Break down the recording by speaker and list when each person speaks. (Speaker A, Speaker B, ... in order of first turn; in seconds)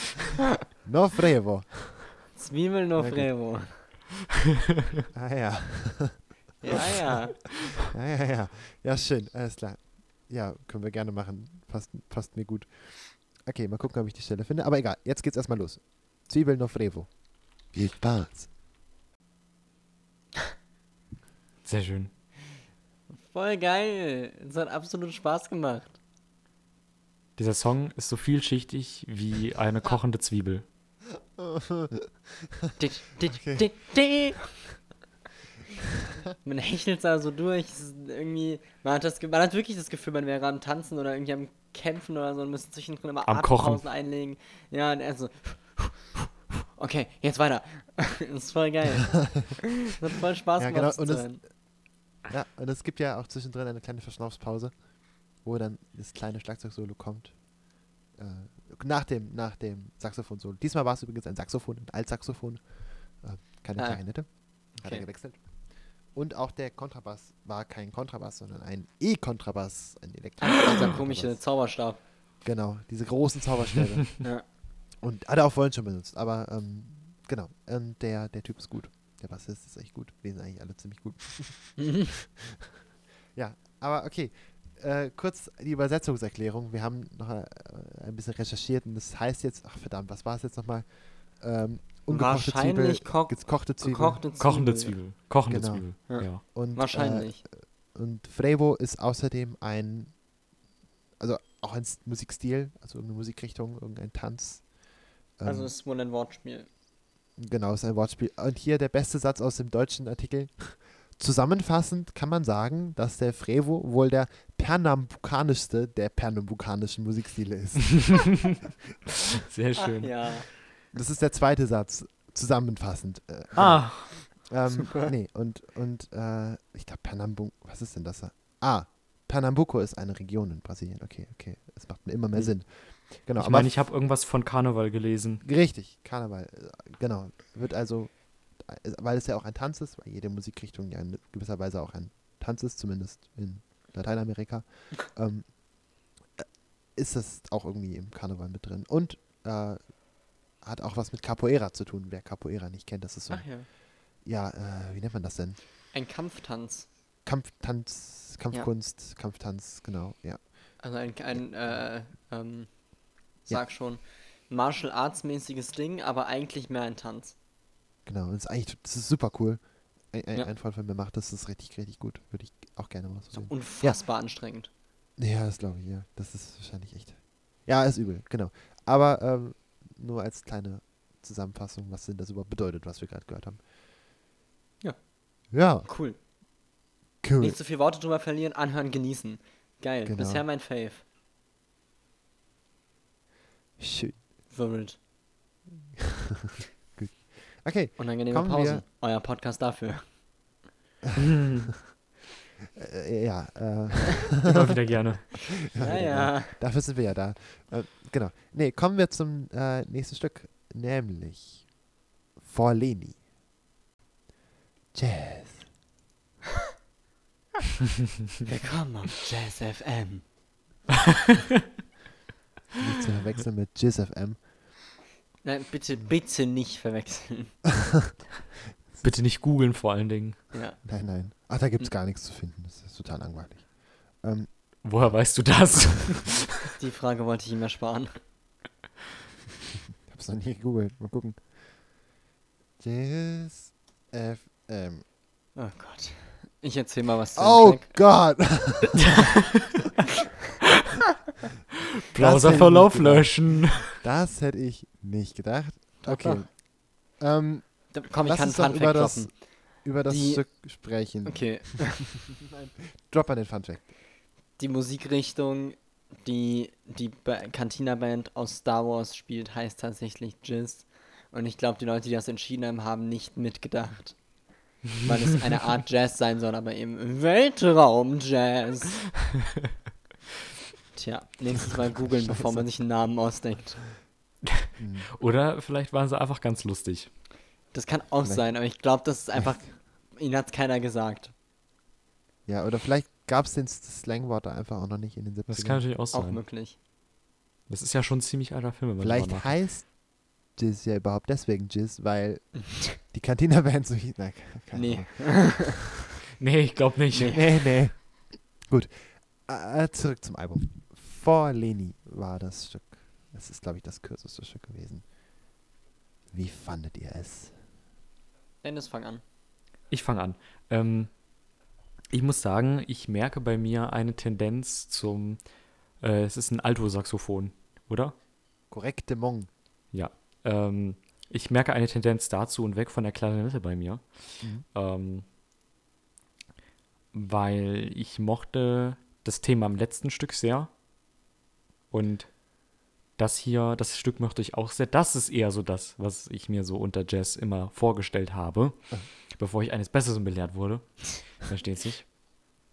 Speaker A: 0.8-2.4, 3.0-3.3, 5.1-18.5, 31.3-32.5, 33.4-33.8, 50.6-71.6, 72.4-82.8, 83.3-94.2, 95.5-100.3, 101.2-104.8, 105.3-105.7, 107.4-118.6, 120.9-133.8, 135.4-155.6, 157.2-161.9, 168.1-174.1, 175.2-183.6, 185.5-185.9, 187.2-187.6, 190.0-190.4, 193.8-194.2, 196.9-198.8, 202.8-211.7, 212.4-213.2, 214.9-215.7, 222.8-224.5, 228.9-229.2, 230.8-235.2, 240.1-241.6, 242.8-245.0, 247.3-249.1, 252.2-263.9, 282.3-282.7, 284.8-285.1, 288.2-289.6, 292.4-295.9, 299.0-305.8, 307.3-315.1, 316.3-317.6, 328.7-329.5
Speaker B: 2.3-3.9, 6.6-7.3, 23.2-26.0, 32.8-34.6, 36.4-51.4, 63.8-65.1, 70.7-72.0, 81.8-82.1, 92.1-95.0, 96.1-97.4, 105.4-106.7, 119.8-120.5, 124.7-125.1, 153.3-153.7, 155.9-156.9, 160.8-167.3, 173.3-174.7, 184.8-186.2, 187.4-191.0, 194.5-195.0, 198.0-200.2, 205.7-206.6, 218.5-220.2, 225.4-227.6, 230.5-231.9, 236.8-238.2, 245.5-248.4, 256.0-256.4, 257.9-262.1, 264.6-274.4, 275.0-279.1, 280.9-283.9, 287.7-291.3, 296.1-296.8, 304.7-305.7, 318.6-319.2
Speaker C: 21.6-22.1, 27.4-30.6, 43.2-43.8, 94.4-96.4, 119.5-120.5, 123.5-124.3, 132.3-135.4, 201.2-201.7, 204.4-205.6, 229.0-230.5, 234.8-236.7, 252.1-254.0, 285.2-287.1, 295.5-296.4, 297.7-299.6, 306.4-307.6, 319.9-321.2, 322.1-328.1, 329.9-335.2, 337.1-340.7, 341.9-342.4, 343.1-352.1